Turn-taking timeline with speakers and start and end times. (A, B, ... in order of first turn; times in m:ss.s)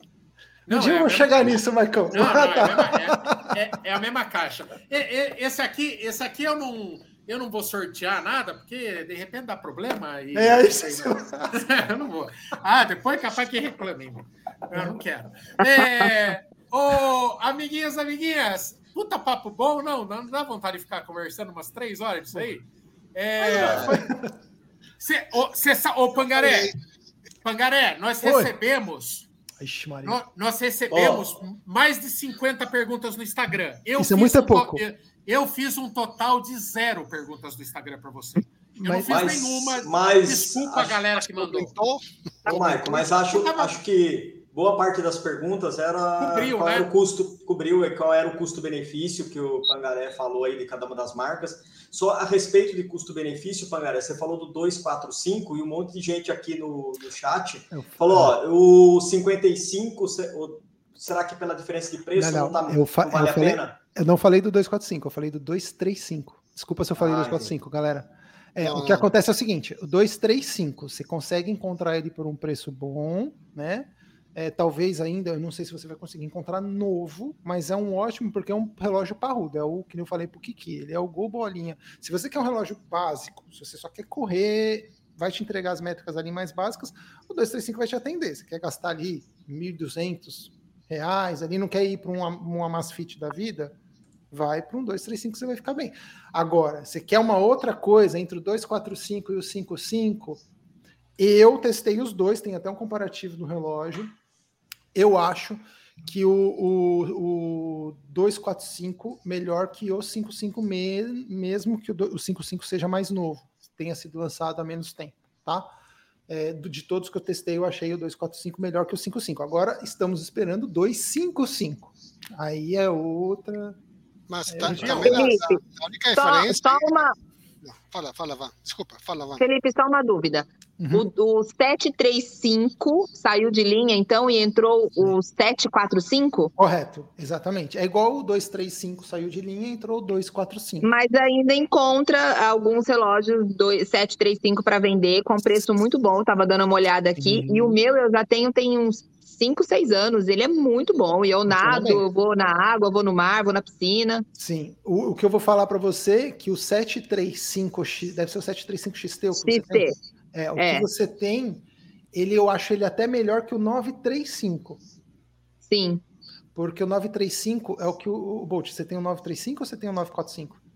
0:00.7-0:24.0 A
0:00.7-0:03.5 B
0:10.3-0:11.6 B
0:14.7-0:15.0 B
0:15.6-0:16.1 B
0:23.4-0:24.3 B
0:23.5-0:23.9 C
0:25.0-0:26.7 A
0:26.4-0:26.7 D
0:27.4-0:29.3 A
0:28.2-0:28.5 B
0:29.6-0:30.2 B
0:30.0-0:41.7 A
0:30.9-0:31.3 C
0:34.0-0:34.8 B
0:38.8-0:39.3 B
0:39.1-0:41.0 C
0:41.2-0:43.1 D
0:42.5-1:03.8 C
0:43.1-0:43.7 A
0:46.2-0:46.9 A
0:57.7-0:58.4 B
1:02.2-1:33.8 B
1:07.0-1:07.5 C
1:08.6-1:09.1 D
1:34.3-1:40.4 B
1:41.2-1:44.1 B
1:44.9-1:55.7 B
1:56.3-2:03.8 B
2:04.3-2:06.9 D
2:04.5-2:05.2 B
2:04.7-2:05.2 A
2:04.9-2:05.6 E
2:06.1-2:07.2 E
2:07.6-2:09.4 D
2:09.4-2:16.5 E
2:10.8-2:11.1 B
2:16.6-2:20.9 B
2:20.8-2:34.2 E
2:27.2-2:27.8 B
2:31.5-2:32.0 B
2:34.4-2:44.8 B
2:39.4-2:40.0 E
2:40.6-2:40.9 E
2:45.6-2:46.0 E
2:46.6-2:50.6 B